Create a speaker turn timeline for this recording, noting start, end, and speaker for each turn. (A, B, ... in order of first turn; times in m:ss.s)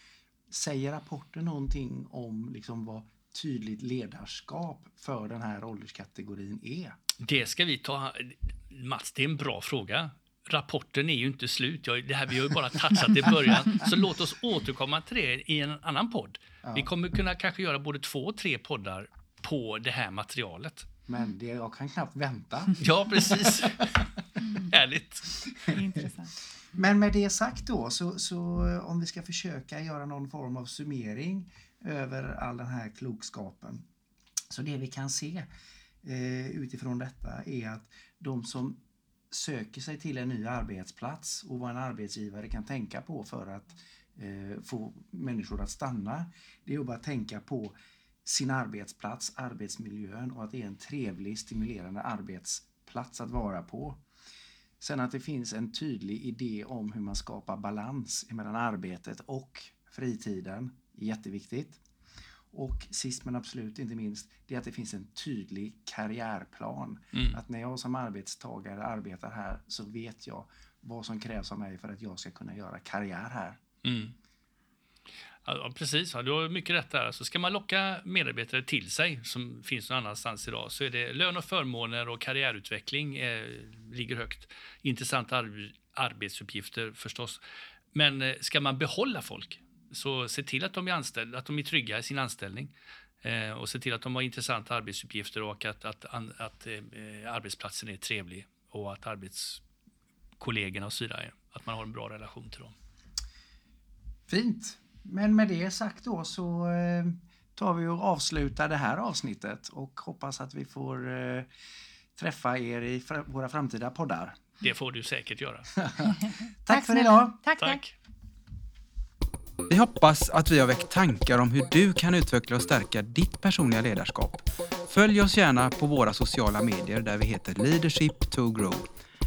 0:00.5-0:07.0 A
0:07.2-0:20.9 B
0:16.6-0:16.9 A
0:21.1-0:22.8 A
0:22.8-0:25.5 B
0:25.6-0:26.4 C
0:26.7-0:33.8 A
0:34.5-0:35.5 A
0:36.0-0:38.8 A
0:39.3-0:54.0 A
0:54.8-1:01.8 A
1:02.5-1:13.6 A
1:13.8-1:14.2 B
1:15.4-1:27.4 B
1:27.9-1:39.6 B
1:40.4-1:42.8 B
1:44.3-1:51.5 A
1:52.2-1:54.4 A
1:54.6-1:55.7 B
1:55.8-1:56.1 A
1:56.6-1:57.4 A
1:56.7-1:57.8 C
1:57.6-1:57.9 B
1:59.7-2:08.9 D